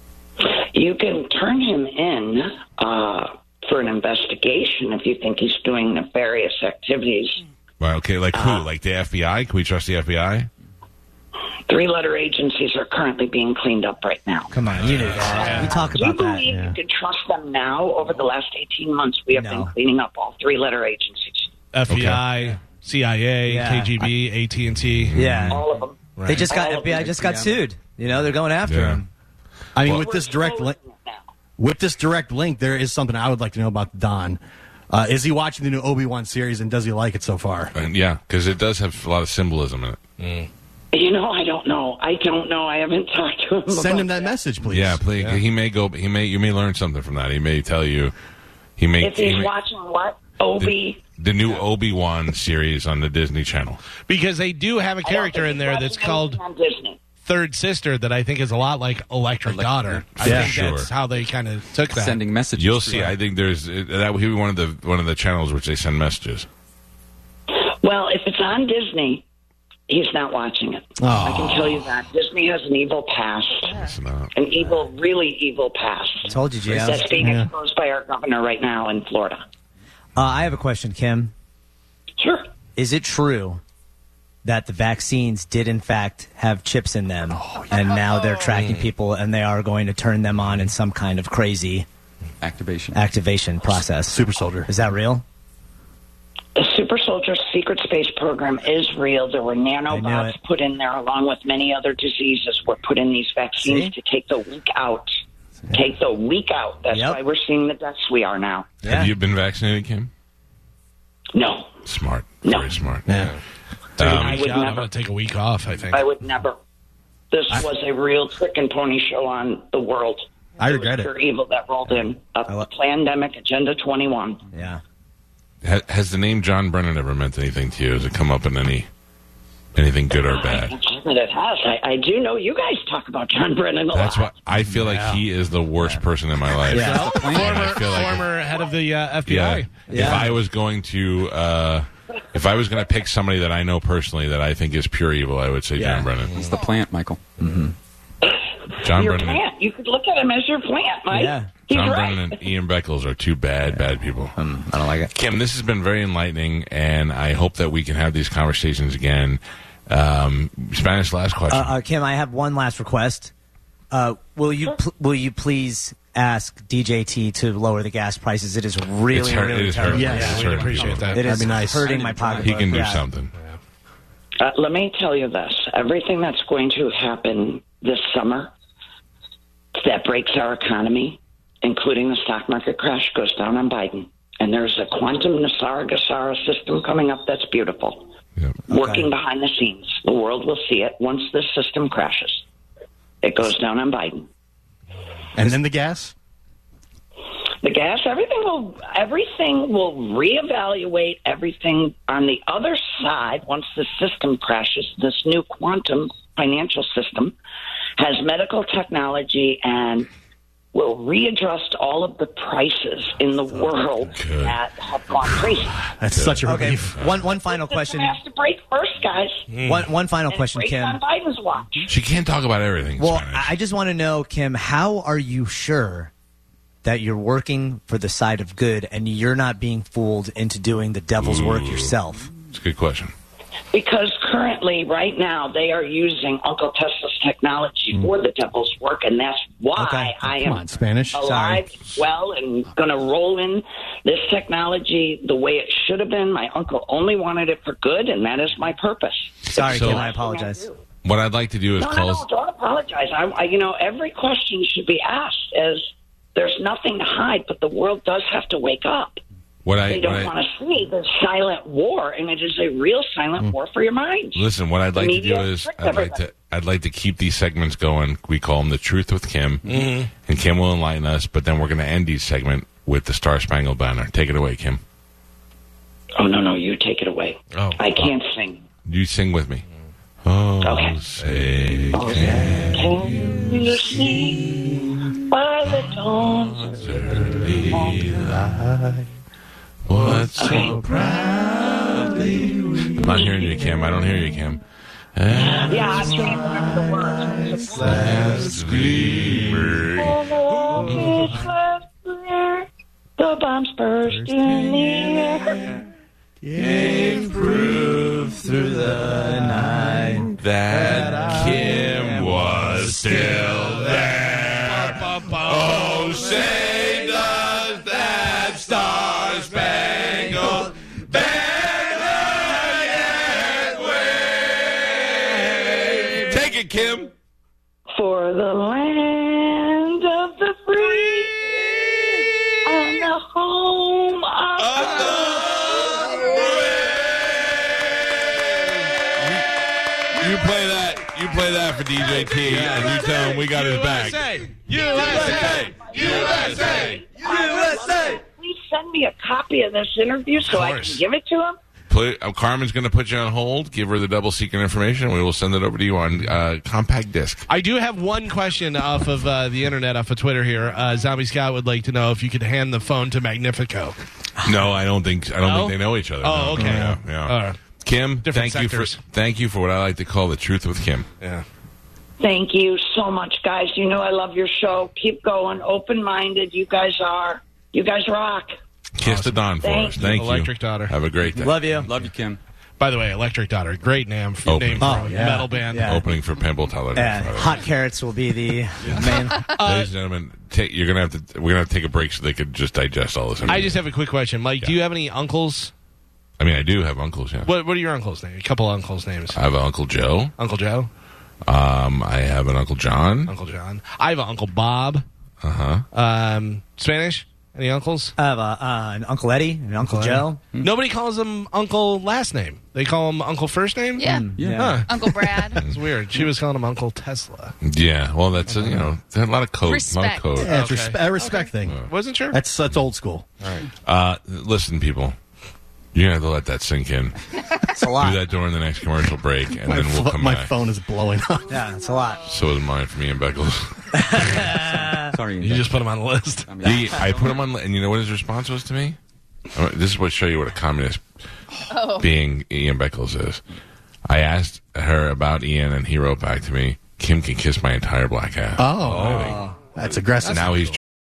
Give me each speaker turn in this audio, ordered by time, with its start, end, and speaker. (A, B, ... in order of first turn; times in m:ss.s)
0:00.4-0:07.4 A
0:07.8-0:10.5 B
0:08.3-0:08.7 A
0:11.7-0:14.5 A
0:14.5-0:16.5 C
0:14.8-0:15.3 B
0:15.2-0:21.5 A
0:15.3-0:15.8 D
0:16.5-0:16.8 E
0:19.3-0:19.7 C
0:21.7-0:25.4 D
0:21.9-0:22.3 B
0:23.5-0:24.0 C
0:25.1-0:25.6 B
0:25.1-0:25.6 C
0:25.5-0:27.5 A
0:26.2-0:26.5 D
0:26.3-0:29.1 C
0:28.1-0:29.0 B
0:29.8-0:30.8 E
0:29.8-0:31.2 A
0:31.6-0:34.4 E
0:34.9-0:37.7 E
0:37.7-0:40.0 B
0:40.2-0:40.5 D
0:40.9-0:44.3 A
0:43.7-0:45.0 E
0:44.7-0:48.1 B
0:45.1-0:45.4 D
0:48.8-0:49.5 B
0:49.0-0:51.0 A
0:50.6-0:53.8 B
0:54.1-0:56.4 D
0:55.0-0:57.0 A
0:57.2-1:02.2 D
0:59.4-1:00.4 F
1:00.2-1:00.9 B
1:00.2-1:00.6 E
1:01.9-1:03.1 F
1:02.6-1:06.5 B
1:07.5-1:09.3 A
1:09.9-1:13.8 A
1:11.0-1:11.8 E
1:13.7-1:14.3 B
1:14.3-1:19.4 A
1:16.3-1:17.1 C
1:17.2-1:17.5 E
1:20.2-1:21.3 C
1:22.2-1:22.5 A
1:22.8-1:23.6 C
1:24.4-1:31.9 C
1:27.5-1:27.7 D
1:28.4-1:28.9 D
1:32.4-1:33.0 F
1:32.9-1:35.2 C
1:34.1-1:34.7 E
1:36.6-1:45.2 A
1:39.9-1:40.4 C
1:43.6-1:43.9 C
1:45.7-1:48.8 A
1:46.9-1:47.2 C
1:48.8-1:49.1 C
1:48.8-1:50.1 B
1:51.3-1:51.7 A
1:51.9-1:53.2 B
1:52.4-1:52.7 A
1:53.1-1:53.3 E
1:54.0-1:54.4 B
1:54.0-1:54.9 A
1:54.0-1:56.0 D
1:55.9-1:56.6 A
1:57.3-2:04.4 A
2:00.6-2:01.1 E
2:04.5-2:04.8 C
2:05.6-2:08.9 B
2:09.8-2:10.8 B
2:10.2-2:14.3 A
2:13.9-2:18.3 B
2:14.8-2:15.2 E
2:15.8-2:16.0 C
2:16.7-2:17.2 C
2:16.7-2:20.4 D
2:17.0-2:18.0 F
2:19.2-2:26.5 B
2:19.9-2:20.3 C
2:25.8-2:26.1 C
2:26.3-2:27.2 F
2:27.4-2:27.7 C
2:28.2-2:32.4 A
2:28.8-2:29.4 B
2:31.1-2:31.5 C
2:31.7-2:34.4 B
2:34.4-2:35.1 C
2:35.1-2:41.8 B
2:41.5-2:43.3 C
2:43.9-2:53.1 C
2:49.1-2:51.2 B
2:49.9-2:50.5 E
2:50.0-2:52.8 D
2:51.2-2:52.0 E
2:52.4-2:53.3 B
2:54.4-2:58.5 A
2:59.8-3:08.1 A
3:08.7-3:09.1 C
3:08.7-3:12.4 A
3:13.2-3:14.3 A
3:15.4-3:16.1 E
3:17.6-3:27.4 A
3:28.0-3:30.1 A
3:30.7-3:35.8 A
3:34.1-3:34.6 B
3:36.0-3:37.0 E
3:36.1-3:37.2 B
3:36.4-3:38.1 C
3:37.4-3:39.5 A
3:39.5-3:39.9 D
3:39.6-3:41.0 C
3:40.3-3:42.0 A
3:41.9-3:43.5 B
3:43.0-3:46.1 C
3:46.8-3:52.3 C
3:51.2-3:51.9 B
3:52.5-3:53.1 B
3:53.7-4:10.8 A
3:59.8-4:00.2 C
4:00.2-4:01.4 E
4:01.2-4:01.7 C
4:09.5-4:10.7 C
4:09.5-4:10.1 B
4:11.0-4:12.2 B
4:11.8-4:19.2 A
4:19.6-4:20.3 B
4:19.9-4:26.2 A
4:24.4-4:34.8 B
4:29.7-4:30.1 D
4:36.2-4:38.6 A
4:37.5-4:37.8 D
4:38.8-4:39.6 B
4:40.2-4:44.6 B
4:40.6-4:41.0 A
4:41.9-4:46.8 A
4:45.7-4:48.8 B
4:47.7-4:48.0 A
4:48.1-4:49.0 E
4:49.9-4:54.6 B
4:50.4-4:50.8 A
4:55.2-5:00.2 B
4:55.4-4:58.2 A
4:58.0-4:59.6 E
4:58.1-4:58.3 D
4:59.9-5:05.7 A
5:00.9-5:01.3 B
5:06.4-5:07.9 E
5:06.6-5:09.3 B
5:09.1-5:10.3 C
5:10.3-5:27.1 B
5:11.0-5:11.6 D
5:12.0-5:12.3 C
5:14.6-5:16.1 D
5:27.9-5:31.4 A
5:32.6-5:35.7 A
5:34.6-5:38.7 B
5:40.1-5:47.0 B
5:42.1-5:48.0 D
5:44.7-5:51.6 A
5:47.3-5:48.0 C
5:50.5-5:51.0 D
5:51.9-5:57.5 B
5:57.5-6:04.0 D
6:04.4-6:11.1 B
6:05.4-6:07.6 D
6:06.6-6:07.0 E
6:08.2-6:09.0 D
6:11.2-6:11.4 D
6:12.2-6:18.6 A
6:19.0-6:21.9 B
6:19.1-6:19.3 D
6:19.6-6:20.0 A
6:20.0-6:21.0 D
6:21.2-6:22.4 F
6:21.4-6:21.9 C
6:22.8-6:25.9 D
6:24.4-6:25.2 B
6:24.8-6:25.6 E
6:25.6-6:26.0 C
6:25.7-6:27.6 B
6:27.0-6:29.5 C
6:28.8-6:33.9 B
6:29.0-6:29.9 D
6:33.5-6:35.7 D
6:36.4-6:37.5 B
6:37.4-6:39.4 D
6:39.3-6:40.3 B
6:40.4-6:40.9 D
6:41.4-6:43.3 B
6:43.3-6:45.0 D
6:45.4-6:45.9 B
6:45.9-6:48.1 D
6:48.2-6:50.4 C
6:49.8-6:57.6 D
6:54.0-6:55.6 G
6:54.0-6:54.9 C
6:54.4-6:54.7 F
6:57.6-7:00.6 B
6:59.6-7:00.4 G
7:00.4-7:03.3 E
7:00.4-7:02.4 D
7:03.8-7:05.2 B
7:05.9-7:10.5 B
7:07.7-7:08.2 C
7:09.7-7:11.6 E
7:11.5-7:12.3 C
7:12.3-7:14.4 B
7:13.9-7:15.2 C
7:14.9-7:15.8 F
7:15.4-7:16.6 D
7:16.5-7:17.3 F
7:16.6-7:19.0 B
7:19.5-7:21.0 B
7:21.7-7:22.1 G
7:22.0-7:23.4 B
7:24.1-7:29.4 B
7:28.6-7:30.6 E
7:30.2-7:30.8 B